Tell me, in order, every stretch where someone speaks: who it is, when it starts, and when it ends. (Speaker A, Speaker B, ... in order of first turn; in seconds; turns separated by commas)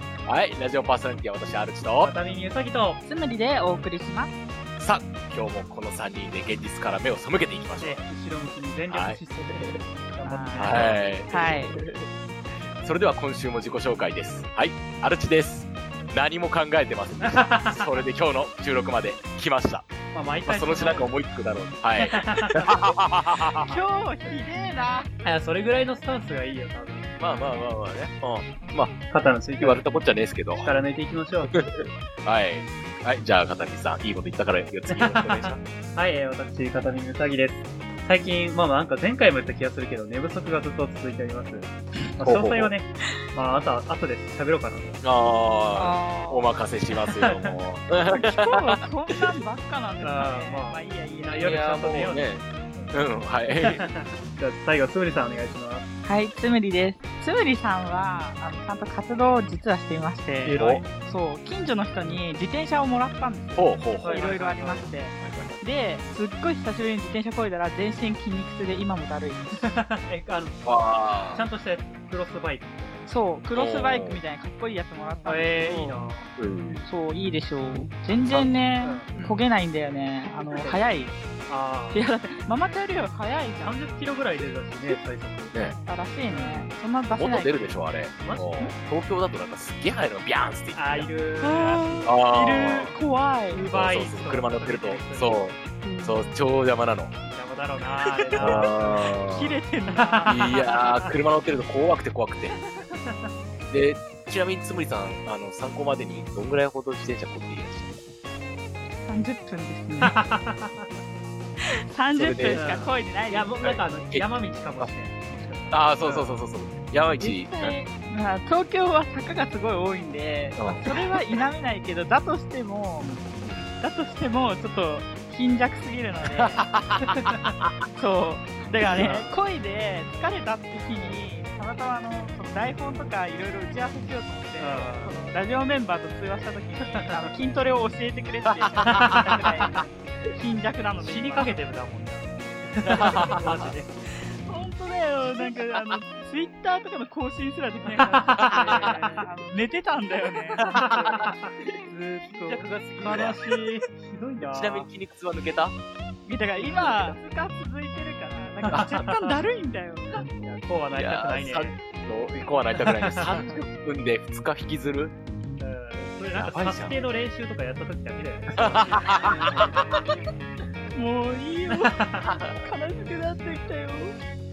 Speaker A: 0.3-2.1, Speaker B: 2.0-3.0, Speaker C: 3.0-4.3, Speaker A: 4.8-8.0, Speaker B: 7.8-11.1, Speaker A: 8.9-9.8, Speaker C: 10.2-11.7, Speaker A: 10.6-12.1, Speaker A: 12.8-19.9, Speaker B: 17.2-18.0, Speaker B: 20.1-21.1, Speaker A: 20.4-23.8, Speaker B: 22.0-22.9, Speaker C: 23.5-25.1, Speaker B: 25.2-27.2, Speaker A: 27.2-28.9, Speaker B: 29.1-29.9, Speaker A: 29.6-30.7, Speaker B: 30.5-31.6, Speaker A: 31.5-35.6, Speaker B: 34.9-45.0, Speaker A: 42.2-42.7, Speaker A: 45.0-49.2, Speaker C: 45.7-46.5, Speaker B: 47.2-47.6, Speaker C: 48.1-51.7, Speaker B: 50.0-52.9, Speaker A: 51.3-53.9, Speaker B: 53.6-55.9, Speaker C: 56.0-69.8, Speaker B: 60.4-60.9, Speaker A: 63.5-64.3, Speaker B: 64.0-64.9, Speaker A: 65.2-65.6, Speaker B: 69.6-73.0, Speaker A: 70.6-71.5, Speaker C: 73.1-76.1, Speaker A: 73.5-74.2, Speaker B: 75.2-76.3, Speaker A: 76.4-76.9, Speaker C: 76.8-81.2, Speaker B: 78.8-79.1, Speaker A: 79.1-79.4, Speaker B: 80.4-80.8, Speaker B: 81.5-82.0, Speaker C: 81.9-83.8, Speaker B: 83.6-85.5, Speaker C: 85.8-87.6, Speaker B: 86.3-86.7, Speaker A: 87.2-91.1, Speaker B: 88.2-88.7, Speaker B: 90.7-92.8, Speaker C: 91.4-93.7, Speaker A: 92.0-92.9, Speaker B: 93.5-95.6, Speaker A: 93.7-97.1, Speaker C: 95.8-96.3, Speaker B: 97.2-99.1, Speaker C: 98.0-100.8, Speaker A: 98.3-99.6, Speaker B: 99.9-101.1, Speaker A: 100.3-102.6, Speaker B: 102.7-103.3, Speaker A: 103.7-108.1, Speaker C: 109.0-110.2, Speaker B: 110.0-110.9, Speaker C: 111.9-113.6, Speaker A: 112.1-112.8, Speaker B: 112.5-116.4, Speaker A: 113.6-114.9, Speaker A: 115.7-117.8, Speaker C: 117.2-123.2, Speaker A: 120.6-121.1, Speaker A: 123.4-123.7, Speaker C: 123.8-126.7, Speaker A: 126.3-127.8, Speaker C: 127.9-141.6, Speaker B: 128.8-129.4, Speaker B: 134.6-135.3, Speaker B: 136.8-137.3, Speaker A: 138.8-139.2, Speaker B: 138.8-139.8, Speaker B: 141.0-144.1, Speaker A: 142.8-143.6, Speaker C: 144.3-151.1, Speaker B: 145.2-145.8, Speaker B: 147.8-149.3, Speaker A: 148.4-148.9, Speaker A: 150.6-151.7, Speaker B: 150.6-154.9, Speaker A: 152.3-153.7, Speaker A: 154.5-155.8, Speaker C: 156.2-160.2, Speaker B: 156.6-157.2, Speaker B: 158.6-159.4, Speaker A: 158.7-159.1, Speaker B: 160.2-161.8, Speaker A: 160.9-165.1, Speaker B: 162.8-163.5, Speaker B: 165.6-170.0, Speaker A: 166.3-167.0, Speaker A: 168.6-169.9, Speaker C: 170.9-174.2, Speaker B: 171.7-172.3, Speaker A: 172.2-172.7